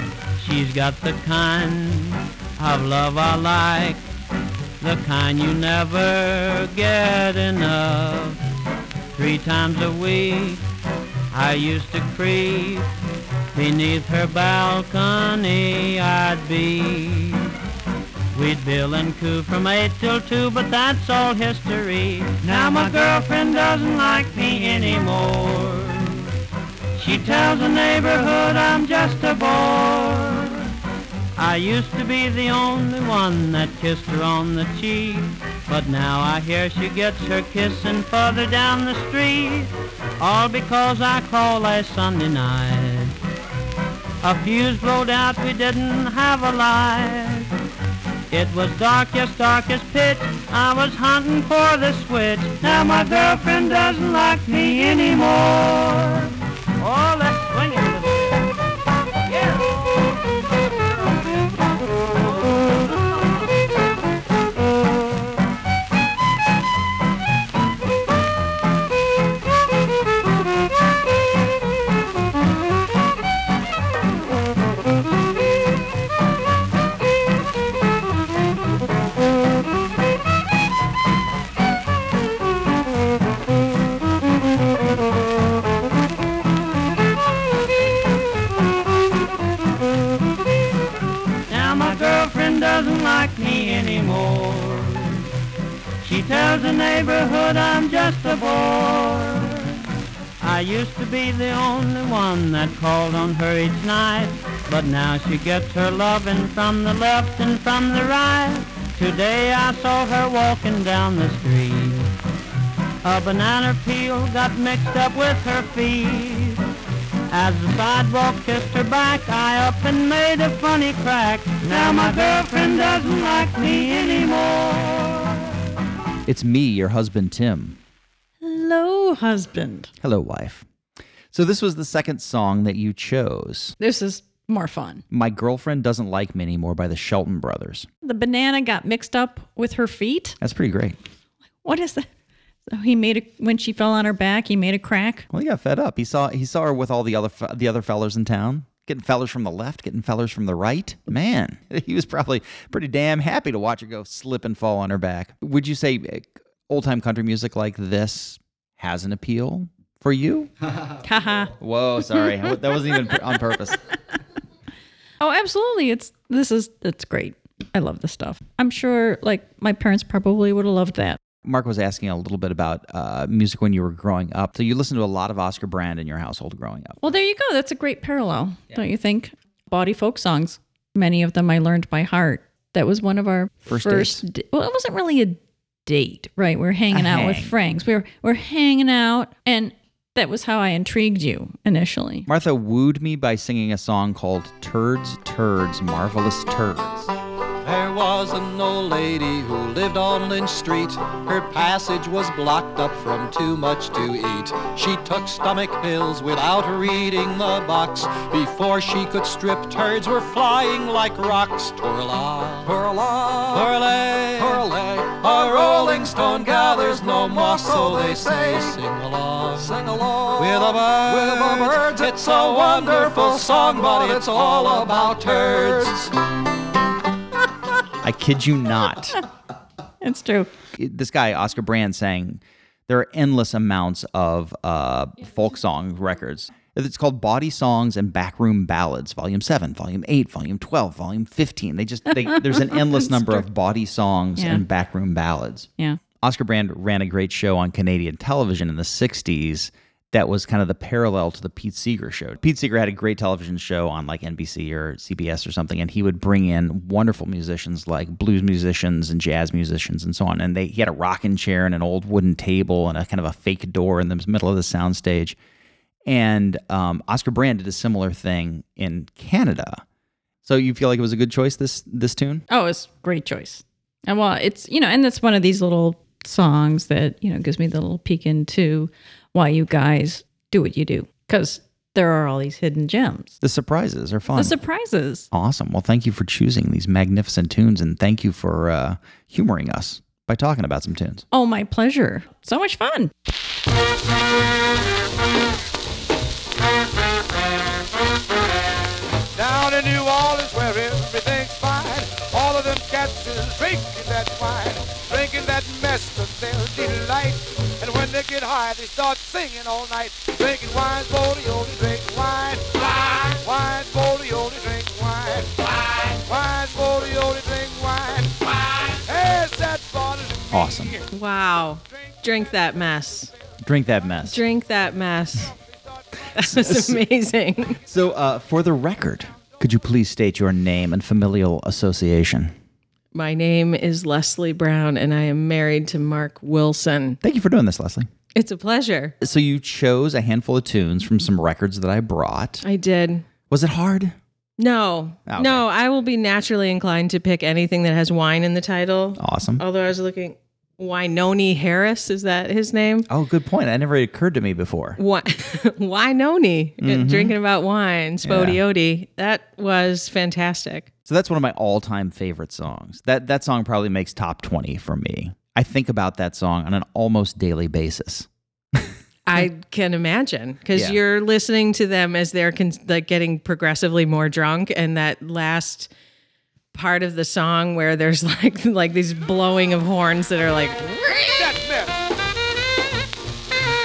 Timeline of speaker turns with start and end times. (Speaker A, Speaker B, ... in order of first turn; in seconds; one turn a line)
Speaker A: 0.4-4.0
Speaker A: 4.8-8.4
Speaker A: 9.2-10.6
Speaker A: 11.3-12.9
Speaker A: 13.5-17.5
Speaker A: 18.3-26.2
Speaker A: 27.0-30.7
Speaker A: 31.4-43.1
Speaker A: 44.2-47.5
Speaker A: 48.3-58.5
Speaker A: 91.5-95.3
Speaker A: 96.0-99.8
Speaker A: 100.4-112.1
Speaker A: 113.0-116.6
Speaker A: 117.3-125.4
Speaker B: 126.3-127.8
Speaker C: 128.4-129.9
Speaker B: 130.0-130.6
Speaker B: 131.3-133.7
Speaker C: 133.8-135.0
Speaker B: 135.1-137.9
Speaker C: 138.0-140.4
Speaker B: 140.4-141.0
Speaker C: 141.6-142.1
Speaker C: 142.7-145.3
Speaker B: 145.3-160.5
Speaker C: 161.0-161.5
Speaker B: 161.6-163.8
Speaker C: 165.2-171.2
Speaker B: 171.4-177.0
Speaker C: 177.0-192.3
Speaker B: 183.7-184.2
Speaker B: 186.9-187.5
Speaker B: 192.3-197.1
Speaker D: 197.6-226.1
Speaker B: 228.0-229.2
Speaker C: 230.0-230.5
Speaker B: 230.8-265.4
Speaker C: 242.2-243.4
Speaker C: 244.4-244.6
Speaker B: 266.1-269.8
Speaker B: 270.4-272.4
Speaker C: 272.5-283.3
Speaker B: 283.4-284.6
Speaker C: 284.4-285.3
Speaker B: 285.3-291.2
Speaker C: 291.3-293.1
Speaker E: 299.4-321.0
Speaker B: 320.5-321.0
Speaker F: 321.1-323.3
Speaker B: 323.6-324.4
Speaker F: 324.3-325.5
Speaker F: 326.4-327.8
Speaker B: 326.4-327.0
Speaker B: 327.9-332.5
Speaker F: 333.1-337.2
Speaker B: 337.2-338.1
Speaker F: 338.4-339.1
Speaker B: 339.2-342.6
Speaker F: 342.6-343.3
Speaker B: 343.5-344.2
Speaker F: 344.6-353.1
Speaker B: 345.3-345.6
Speaker B: 349.2-349.6
Speaker B: 353.1-355.0
Speaker F: 355.0-360.9
Speaker B: 356.8-357.4
Speaker B: 358.2-358.6
Speaker B: 361.1-368.9
Speaker F: 369.3-375.9
Speaker F: 376.7-381.6
Speaker E: 381.3-382.0